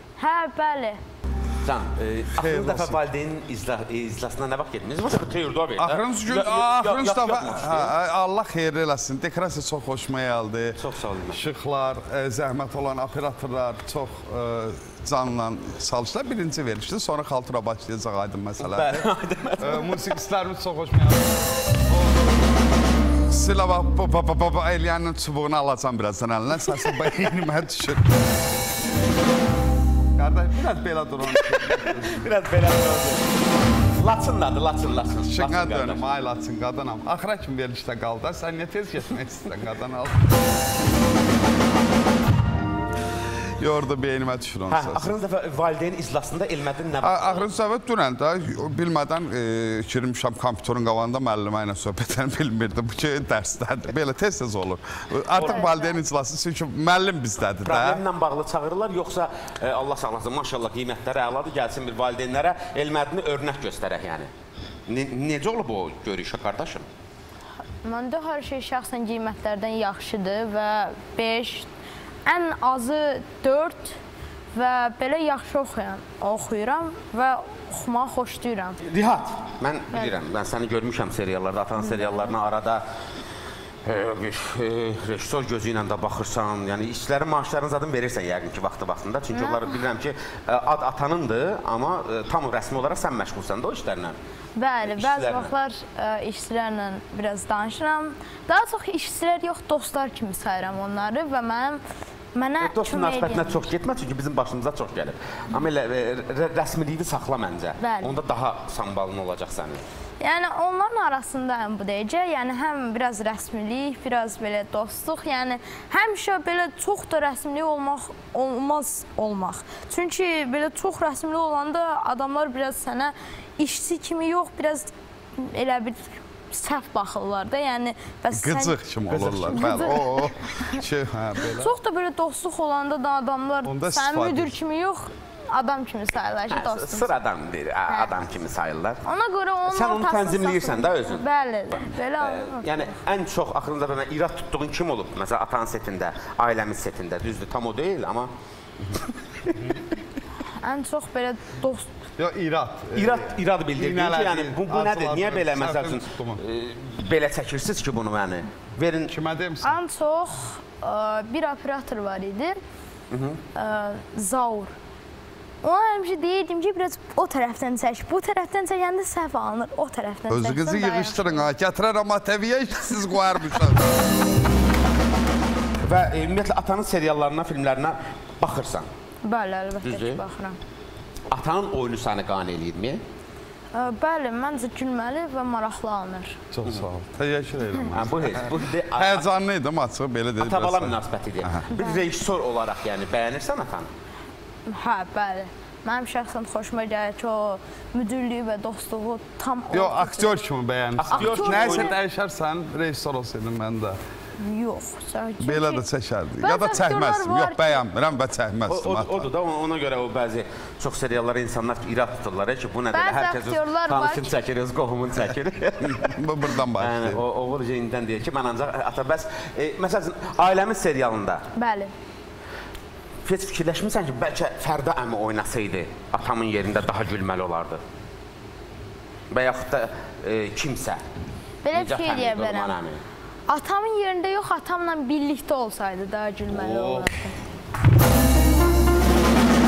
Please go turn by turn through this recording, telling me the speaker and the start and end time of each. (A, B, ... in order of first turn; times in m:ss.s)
0:00.2-0:01.0 A
0:01.6-0:07.9 B
0:02.4-0:03.0 C
0:05.8-0:10.8 C
0:10.7-0:11.4 B
0:11.3-0:19.1 C
0:18.6-0:19.9 B
0:19.6-0:22.4 C
0:23.2-0:28.2 C
0:30.2-0:32.2 C
0:31.3-0:33.3 B
0:33.9-0:36.0 B
0:35.3-0:40.4 C
0:43.6-0:45.1 C
0:44.7-0:47.5 B
0:47.0-0:58.0 C
0:55.3-0:55.7 B
0:55.3-0:56.0 A
0:57.6-1:04.3 B
1:04.9-1:06.8 B
1:07.8-1:11.7 A
1:12.2-1:14.0 A
1:14.5-1:18.8 A
1:18.8-1:22.8 B
1:21.8-1:22.3 A
1:23.8-1:34.2 B
1:29.3-1:29.8 A
1:34.6-1:41.8 A
1:34.8-1:35.5 B
1:42.3-1:43.7 A
1:42.6-1:49.8 B
1:47.8-1:48.2 A
1:50.2-2:08.8 A
2:08.3-2:11.7 C
2:09.1-2:09.8 B
2:09.5-2:10.8 A
2:11.4-2:17.1 A
2:13.6-2:14.5 C
2:16.5-2:19.0 B
2:17.9-2:18.1 A
2:19.0-2:22.8 A
2:19.6-2:21.2 B
2:22.2-2:28.3 B
2:29.0-2:29.8 B
2:30.6-2:31.9 A
2:32.2-2:36.4 C
2:32.9-2:39.1 B
2:39.1-2:39.8 C
2:39.6-2:42.6 A
2:43.1-2:43.4 B
2:43.5-2:44.7 A
2:45.6-2:51.5 A
2:50.3-2:54.0 C
2:55.8-2:58.9 B
2:59.2-3:00.6 A
2:59.8-3:00.2 B
3:01.3-3:03.0 B
3:03.7-3:06.4 A
3:06.5-3:11.6 C
3:07.9-3:09.3 B
3:10.4-3:13.9 B
3:11.8-3:12.0 A
3:14.7-3:20.4 A
3:19.7-3:24.0 C
3:21.0-3:21.9 B
3:21.1-3:22.0 A
3:24.4-3:25.8 A
3:25.4-3:29.3 C
3:26.4-3:27.8 A
3:28.7-3:41.4 B
3:32.9-3:34.3 A
3:36.0-3:37.2 C
3:41.5-3:41.9 A
3:43.2-3:47.8 B
3:49.3-3:51.0 B
3:51.6-3:52.8 A
3:51.7-3:53.0 B
3:53.5-3:57.4 A
3:56.5-3:57.1 B